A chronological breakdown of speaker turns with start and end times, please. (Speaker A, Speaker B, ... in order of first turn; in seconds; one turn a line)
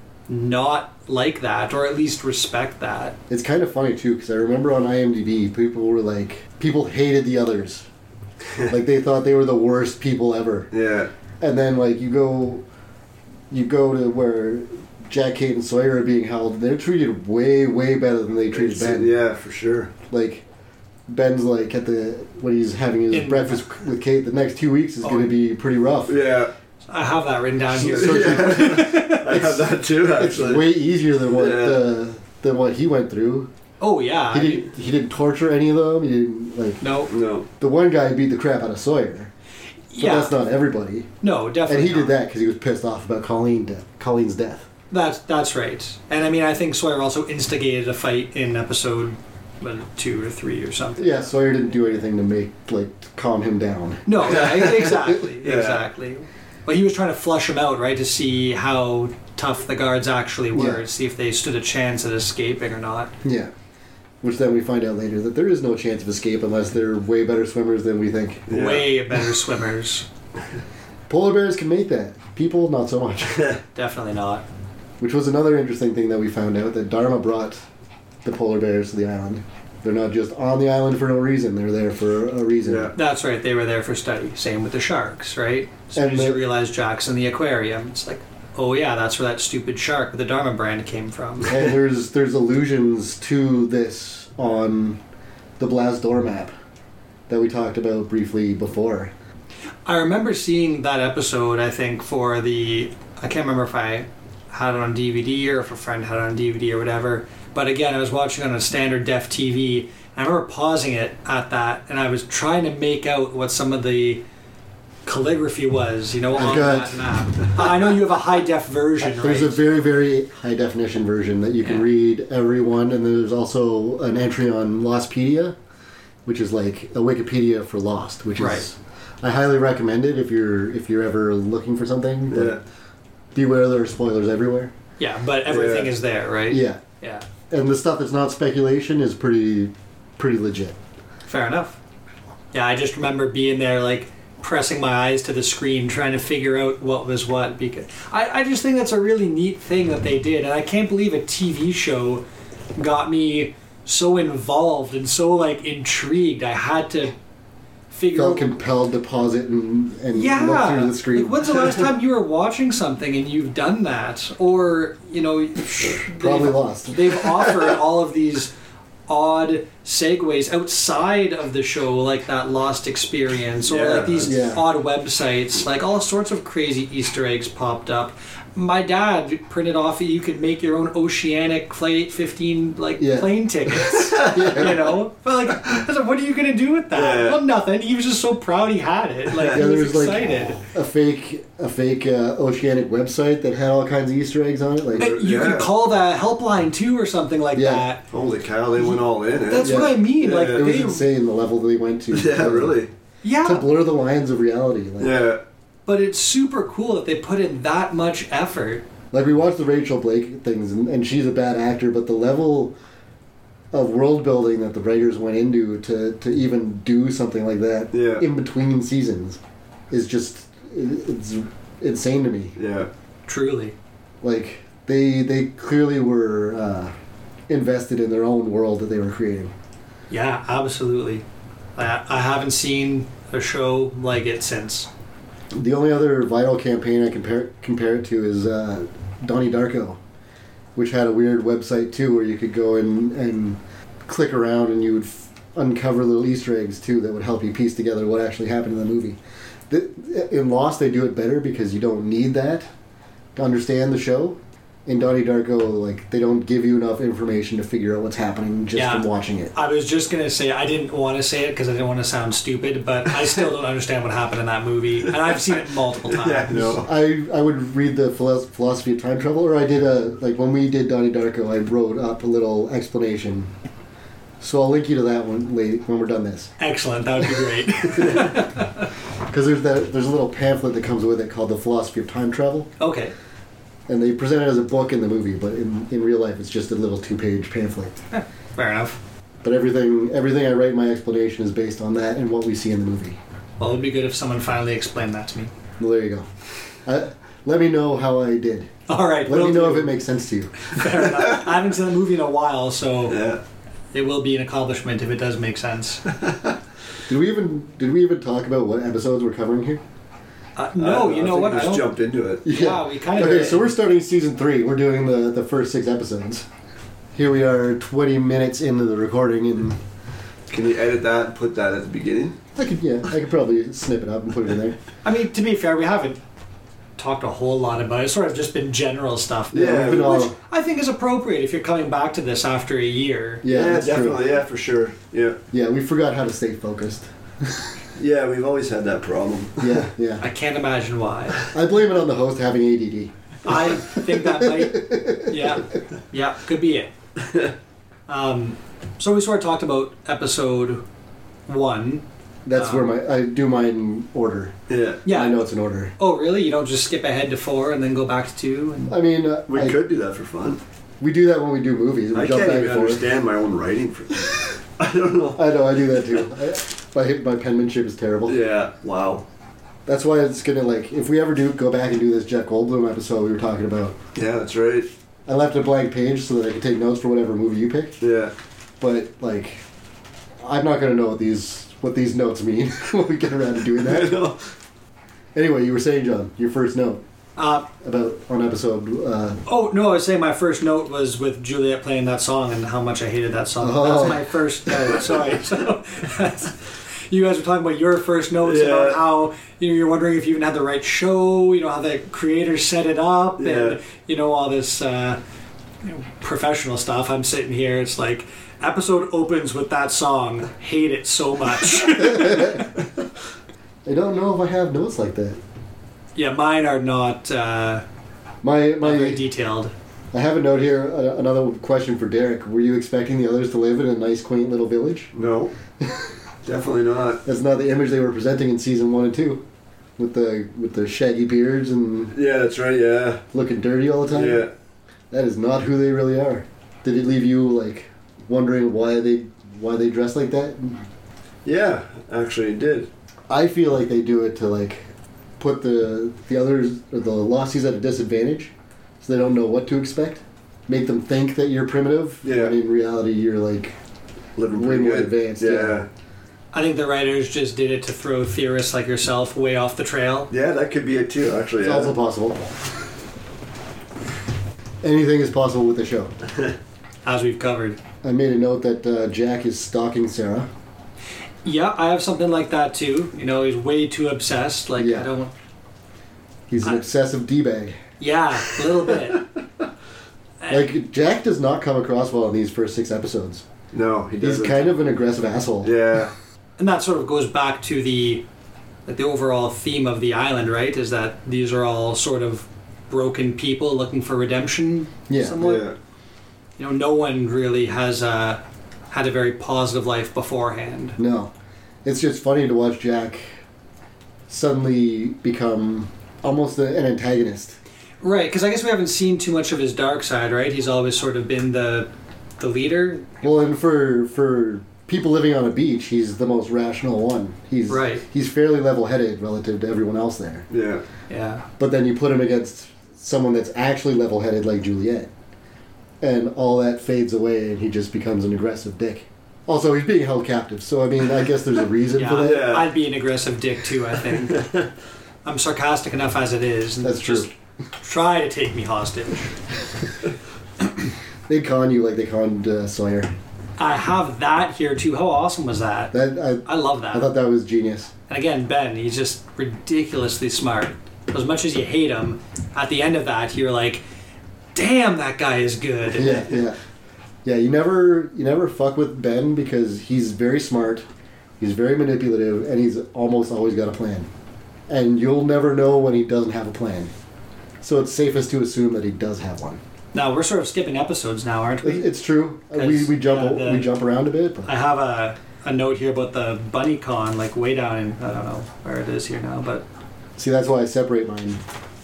Speaker A: 0.3-3.2
Speaker B: 3.3-7.9
Speaker B: 8.7-10.7
Speaker C: 10.7-11.1
Speaker B: 11.4-12.6
Speaker B: 13.5-19.1
Speaker C: 18.5-19.9
Speaker B: 20.1-20.4
Speaker B: 21.1-26.2
Speaker A: 23.1-23.7
Speaker A: 25.0-25.3
Speaker C: 26.1-26.5
Speaker A: 26.9-29.5
Speaker B: 27.7-33.5
Speaker C: 27.8-30.7
Speaker C: 31.3-31.8
Speaker A: 33.8-34.7
Speaker B: 34.3-36.8
Speaker A: 36.8-37.1
Speaker C: 37.1-37.5
Speaker B: 37.6-39.3
Speaker A: 39.9-40.4
Speaker B: 40.0-41.1
Speaker A: 41.2-42.2
Speaker B: 41.7-44.7
Speaker A: 44.9-51.3
Speaker B: 51.0-54.6
Speaker A: 54.1-63.1
Speaker C: 54.3-55.8
Speaker B: 60.5-60.9
Speaker B: 63.2-63.5
Speaker B: 64.2-68.5
Speaker C: 68.5-69.0
Speaker A: 68.5-70.1
Speaker B: 71.1-73.5
Speaker A: 73.8-74.5
Speaker B: 75.0-77.6
Speaker B: 78.2-82.9
Speaker C: 82.6-82.9
Speaker A: 83.0-91.6
Speaker B: 85.9-86.4
Speaker B: 91.5-95.0
Speaker B: 95.6-96.5
Speaker B: 97.3-99.1
Speaker A: 99.9-114.2
Speaker A: 115.0-119.6
Speaker B: 116.3-117.0
Speaker B: 119.0-125.6
Speaker B: 126.2-132.6
Speaker A: 128.4-128.7
Speaker C: 132.3-132.6
Speaker B: 133.3-134.7
Speaker A: 135.0-137.2
Speaker C: 135.5-135.9
Speaker B: 136.5-136.8
Speaker B: 137.5-140.8
Speaker A: 141.3-141.8
Speaker A: 142.5-152.2
Speaker A: 152.8-157.2
Speaker A: 157.9-158.5
Speaker B: 158.2-161.8
Speaker A: 160.1-168.5
Speaker B: 166.0-167.3
Speaker A: 169.1-190.6
Speaker C: 173.7-174.5
Speaker B: 174.3-174.6
Speaker B: 183.0-183.3
Speaker C: 184.1-184.6
Speaker B: 184.1-184.9
Speaker C: 186.9-187.4
Speaker C: 189.3-189.6
Speaker B: 189.5-195.2
Speaker C: 194.9-195.7
Speaker A: 195.0-198.0
Speaker B: 197.5-197.9
Speaker C: 198.1-200.7
Speaker A: 198.8-201.1
Speaker B: 199.6-202.8
Speaker C: 202.1-202.9
Speaker A: 203.2-203.7
Speaker B: 203.4-205.2
Speaker C: 205.0-205.4
Speaker A: 205.9-208.8
Speaker B: 209.1-212.8
Speaker B: 213.7-219.4
Speaker C: 217.9-218.2
Speaker B: 219.9-222.6
Speaker C: 222.6-222.9
Speaker A: 223.3-223.8
Speaker B: 224.2-226.9
Speaker B: 227.5-229.5
Speaker A: 230.1-231.2
Speaker A: 231.8-234.9
Speaker B: 235.5-240.0
Speaker B: 240.8-252.7
Speaker B: 253.4-259.5
Speaker A: 258.8-266.6
Speaker C: 266.1-266.9
Speaker B: 266.5-273.5
Speaker B: 274.4-276.5
Speaker A: 276.6-278.9
Speaker B: 277.9-278.3
Speaker B: 279.3-282.7
Speaker A: 282.8-283.1
Speaker B: 283.9-287.9
Speaker A: 288.1-289.0
Speaker B: 289.4-293.2
Speaker A: 293.6-295.5
Speaker B: 295.8-296.3
Speaker B: 296.9-298.7
Speaker A: 298.9-300.0
Speaker B: 299.3-300.7
Speaker A: 300.6-303.2
Speaker C: 303.1-303.4
Speaker A: 303.9-306.1
Speaker C: 306.2-306.5
Speaker B: 307.1-309.8
Speaker A: 310.6-311.9
Speaker C: 310.8-312.4
Speaker B: 312.4-316.5
Speaker A: 312.5-313.7
Speaker B: 317.1-319.8
Speaker C: 320.5-322.4
Speaker B: 322.6-324.8
Speaker A: 325.0-326.2
Speaker A: 327.0-333.4
Speaker C: 329.5-330.2
Speaker B: 329.5-330.4
Speaker B: 333.4-334.3
Speaker C: 333.5-335.4
Speaker B: 335.5-337.7
Speaker C: 338.0-339.9
Speaker B: 339.6-340.2
Speaker A: 340.2-341.4
Speaker B: 341.5-345.6
Speaker A: 343.4-346.9
Speaker C: 347.2-347.5
Speaker A: 348.1-350.8
Speaker A: 351.5-352.9
Speaker B: 352.4-354.6
Speaker C: 354.7-355.0
Speaker A: 355.1-355.4
Speaker B: 355.1-355.9
Speaker A: 356.0-358.9
Speaker B: 358.9-359.8
Speaker C: 359.5-360.6
Speaker B: 361.0-363.1
Speaker C: 362.1-365.6
Speaker B: 365.4-368.4
Speaker C: 368.3-369.3
Speaker B: 369.9-374.0
Speaker C: 374.1-374.9
Speaker B: 375.3-378.0
Speaker C: 378.0-378.3
Speaker B: 378.8-379.6
Speaker B: 380.4-384.2
Speaker C: 383.8-384.4
Speaker B: 385.4-387.0
Speaker A: 387.4-387.7
Speaker B: 387.8-389.4
Speaker A: 389.5-405.2
Speaker B: 393.6-394.9
Speaker C: 398.4-399.0
Speaker C: 403.4-403.8
Speaker A: 405.8-412.7
Speaker B: 412.0-412.6
Speaker B: 413.9-415.4
Speaker A: 416.1-417.8
Speaker B: 418.4-419.2
Speaker A: 418.8-419.7
Speaker B: 420.1-425.1
Speaker C: 425.1-425.5
Speaker B: 425.8-426.1
Speaker C: 426.4-427.2
Speaker B: 427.2-429.4
Speaker B: 430.0-432.1
Speaker C: 432.1-433.2
Speaker B: 433.3-434.4
Speaker C: 434.1-434.5
Speaker B: 435.1-440.9
Speaker C: 441.4-442.9
Speaker B: 443.3-453.8
Speaker C: 452.2-452.6
Speaker C: 454.4-455.9
Speaker B: 454.5-455.8
Speaker A: 456.5-460.3
Speaker C: 460.3-461.9
Speaker B: 461.6-462.5
Speaker B: 464.8-466.1
Speaker A: 467.1-467.8
Speaker B: 468.0-470.5
Speaker A: 471.4-475.3
Speaker B: 474.8-475.1
Speaker B: 476.5-477.8
Speaker A: 478.0-479.2
Speaker A: 480.4-480.7
Speaker B: 480.5-483.4
Speaker C: 483.7-484.9
Speaker B: 484.2-485.7
Speaker C: 485.6-486.1
Speaker A: 486.6-488.2
Speaker A: 488.9-495.7
Speaker B: 495.1-495.4
Speaker C: 495.4-495.8
Speaker A: 496.6-501.0
Speaker B: 501.0-501.3
Speaker B: 501.9-503.3
Speaker B: 504.3-507.6
Speaker A: 508.0-513.3
Speaker B: 513.2-520.5
Speaker A: 517.7-518.0
Speaker C: 520.5-520.8
Speaker A: 521.1-521.5
Speaker B: 521.6-525.1
Speaker B: 526.0-532.6
Speaker A: 531.9-534.5
Speaker C: 532.2-532.7
Speaker C: 534.2-534.7
Speaker A: 535.2-539.3
Speaker B: 536.8-537.3
Speaker B: 541.3-543.1
Speaker A: 543.6-547.1
Speaker B: 545.9-547.9
Speaker A: 548.1-553.8
Speaker A: 554.5-556.3
Speaker B: 555.9-556.6
Speaker B: 557.2-560.9
Speaker B: 561.4-564.1
Speaker B: 564.7-566.9
Speaker B: 567.6-569.6
Speaker A: 569.9-571.9
Speaker B: 571.6-574.5
Speaker A: 572.5-573.7
Speaker A: 574.5-579.6
Speaker B: 580.2-581.4